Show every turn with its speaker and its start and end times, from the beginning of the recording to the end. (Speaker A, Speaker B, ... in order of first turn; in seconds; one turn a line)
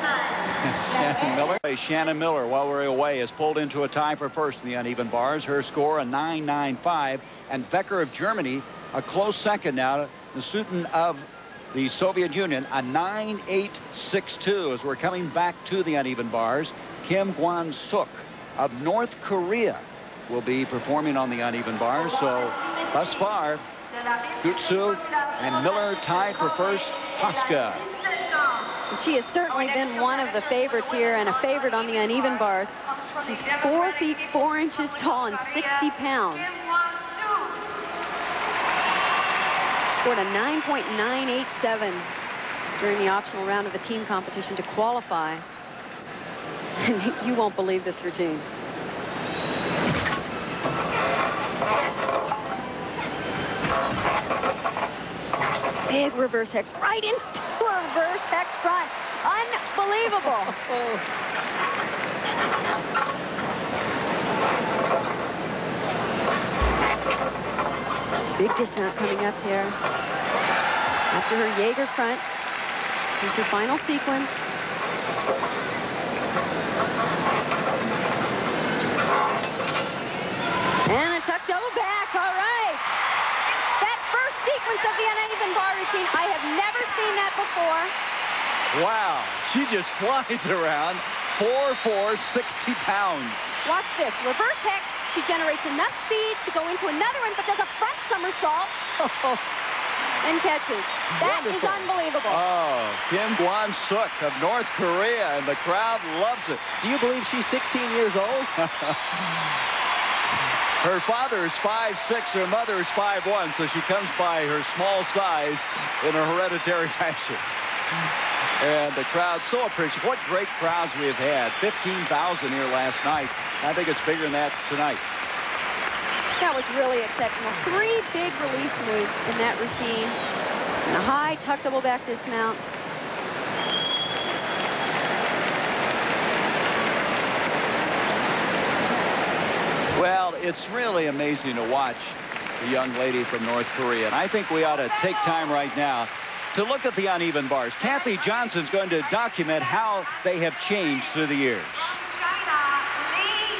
Speaker A: 0.6-23.6
Speaker A: 24.4-27.9
Speaker B: 28.9-36.6
Speaker B: 39.9-42.1
Speaker B: 42.8-45.4
Speaker B: 46.8-48.5
Speaker B: 55.9-60.9
Speaker B: 68.4-69.8
Speaker B: 71.1-72.2
Speaker B: 73.2-74.4
Speaker B: 80.9-82.9
Speaker B: 83.8-87.9
Speaker A: 88.7-93.5
Speaker B: 93.6-98.8
Speaker B: 100.2-102.4
Speaker C: 101.2-101.8
Speaker A: 102.3-106.8
Speaker C: 106.8-108.5
Speaker A: 108.6-109.0
Speaker A: 110.8-117.5
Speaker A: 118.6-125.0
Speaker B: 126.4-130.2
Speaker B: 130.8-132.6
Speaker A: 139.9-152.0